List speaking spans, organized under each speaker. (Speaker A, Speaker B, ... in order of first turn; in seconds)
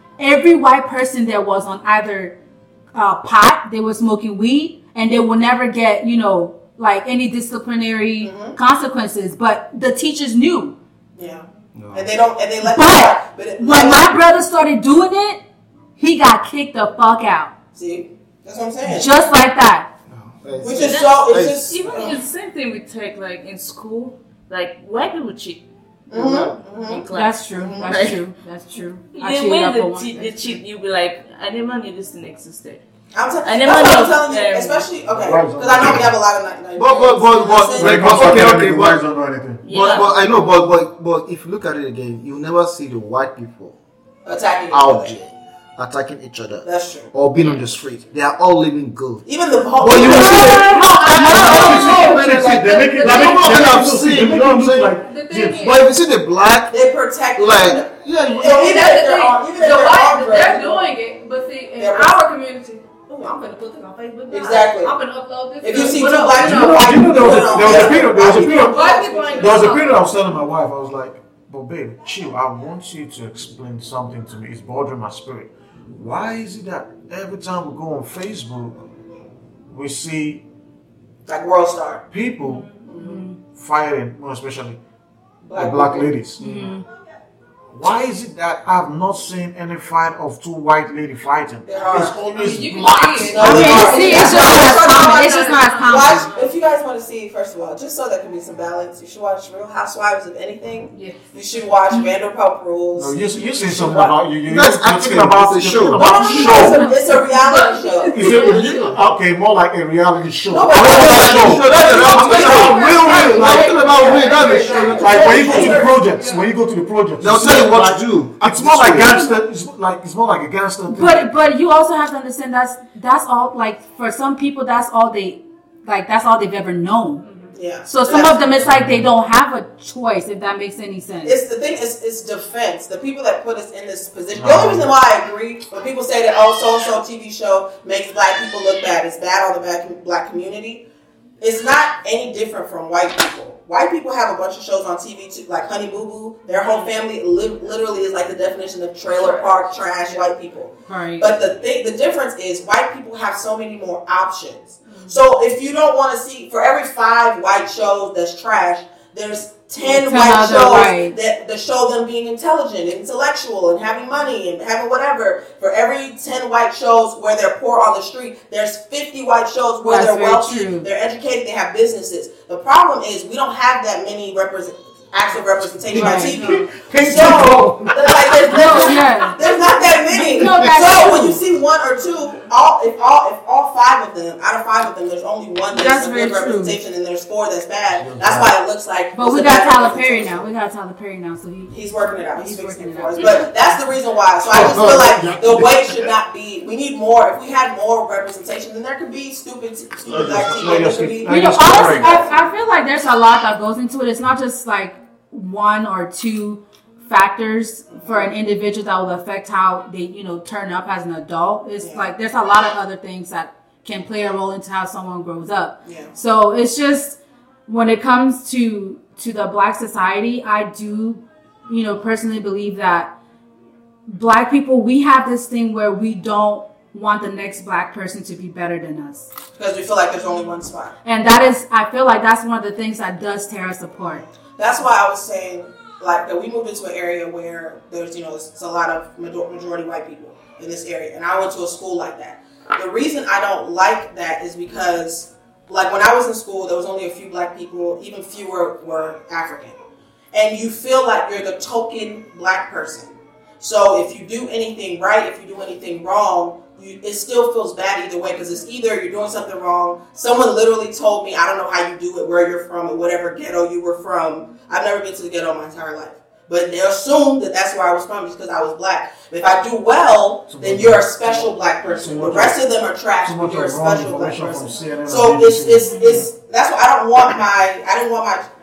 Speaker A: 0.2-2.4, 2.9-10.8, 12.6-15.4, 16.0-17.5, 18.8-19.9, 27.1-30.6, 51.2-52.1, 82.5-83.4, 86.4-86.8, 93.4-96.3, 106.3-107.2, 120.9-127.2, 127.8-131.4, 150.9-151.3, 159.8-161.2, 169.8-170.9, 175.9-176.4, 178.5-179.4, 180.1-181.4, 185.7-186.8, 189.1-191.8, 192.3-193.8, 201.3-223.1, 224.1-229.3, 231.0-234.2, 275.9-276.2
Speaker B: 8.2-8.6, 11.2-14.2, 17.7-19.1, 20.6-22.2, 26.1-28.1, 33.1-38.5, 44.2-45.1, 46.6-47.1, 49.3-50.8, 56.7-60.9, 61.8-62.2, 63.1-63.4, 64.3-65.0, 65.6-69.8, 81.3-82.0, 82.9-83.2, 85.4-86.2, 91.7-92.2, 93.2-104.2, 105.9-108.5, 110.5-116.0, 127.5-128.6, 131.2-140.8, 141.4-190.5, 191.7-202.4, 208.0-208.3, 211.8-212.1, 215.8-216.1, 229.6-230.9, 234.0-249.8, 250.3-278.5
Speaker C: 11.8-12.1, 20.1-21.6, 35.7-36.1, 36.8-39.0, 39.7-43.8, 44.7-49.2, 49.8-55.0, 55.5-56.7, 57.4-58.9, 104.4-106.2, 108.2-109.0, 110.7-115.8, 117.2-119.2, 194.5-195.6
Speaker D: 20.8-28.1, 29.1-32.8, 33.4-34.9, 39.6-40.1
Speaker E: 35.1-36.1, 37.8-39.6, 49.9-55.8, 66.4-78.8, 79.7-80.4, 82.1-82.7, 83.5-84.8, 85.5-86.7, 87.7-94.5, 103.0-106.8, 108.2-113.8, 115.0-121.3, 128.6-129.1, 134.3-134.9, 175.9-178.8, 187.9-188.5, 194.5-196.0, 200.1-202.3, 270.5-272.6, 273.2-276.2
Speaker F: 50.1-53.8, 55.0-55.9, 58.4-69.9, 82.4-82.9, 92.2-96.7, 100.9-101.3, 106.2-109.0, 111.7-116.5, 127.2-127.5, 146.6-146.9, 149.1-150.3, 154.8-155.2, 176.2-176.8, 178.6-180.4